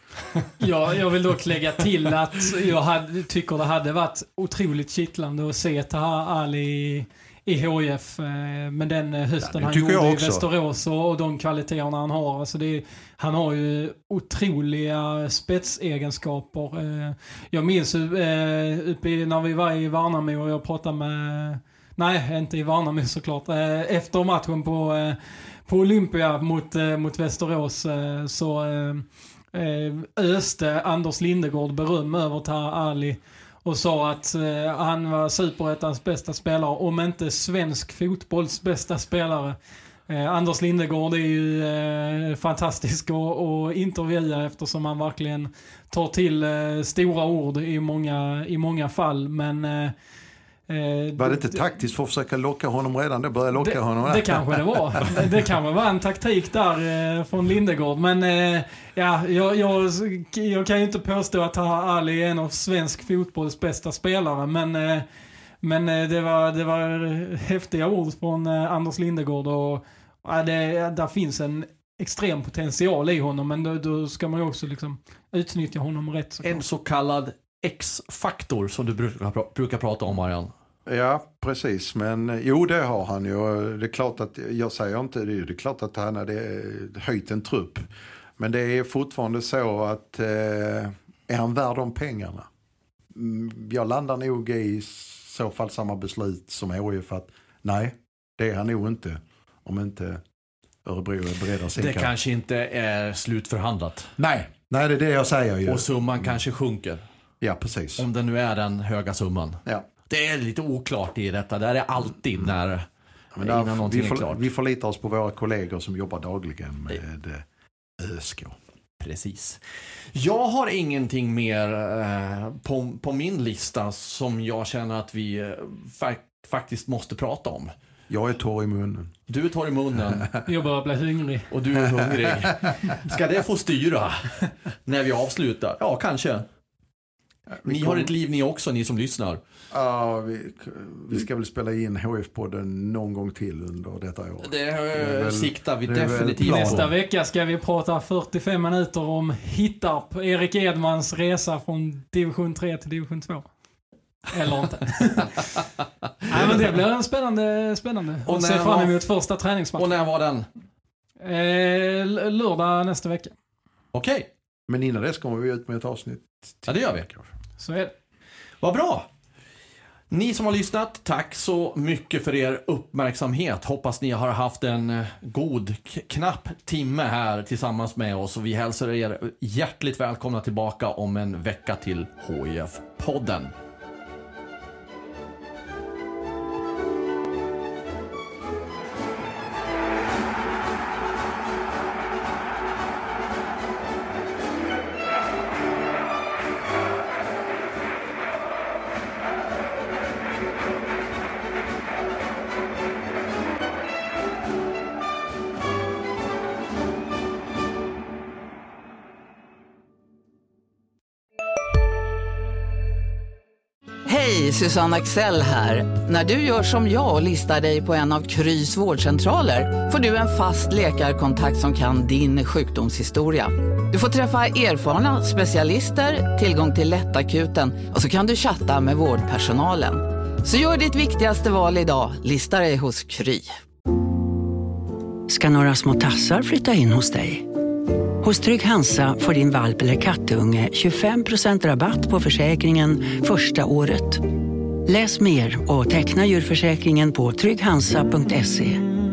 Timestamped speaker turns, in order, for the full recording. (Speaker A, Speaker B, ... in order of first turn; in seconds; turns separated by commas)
Speaker A: 0.6-39.6, Speaker B: 9.4-10.5, Speaker A: 40.1-49.9, Speaker A: 50.7-51.6, Speaker B: 51.2-55.3, Speaker A: 53.6-65.0, Speaker A: 65.6-76.6, Speaker C: 76.4-80.5, Speaker B: 80.9-87.9, Speaker B: 88.4-92.5, Speaker B: 93.1-100.2, Speaker B: 100.8-102.1, Speaker C: 101.8-104.1, Speaker B: 104.2-106.3, Speaker C: 105.7-107.0, Speaker B: 107.4-108.1, Speaker C: 108.0-112.9, Speaker B: 113.3-117.5, Speaker C: 113.4-114.5, Speaker B: 118.0-118.6, Speaker C: 119.0-119.6, Speaker C: 120.1-127.7, Speaker B: 128.1-129.1, Speaker C: 129.3-130.3, Speaker A: 130.5-131.5, Speaker C: 131.5-136.5, Speaker B: 137.5-138.1, Speaker C: 137.6-139.4, Speaker B: 139.7-146.9, Speaker C: 144.4-146.9, Speaker A: 146.4-153.5, Speaker A: 154.3-155.3, Speaker A: 156.3-159.9, Speaker C: 158.3-159.0, Speaker C: 159.8-160.5, Speaker A: 161.2-163.3, Speaker C: 163.9-164.3, Speaker B: 164.7-167.2, Speaker C: 166.7-167.1, Speaker A: 167.6-167.9, Speaker C: 168.6-169.1, Speaker C: 170.1-183.5, Speaker D: 214.1-233.6, Speaker E: 235.3-237.5, Speaker E: 238.2-244.3, Speaker E: 244.9-248.8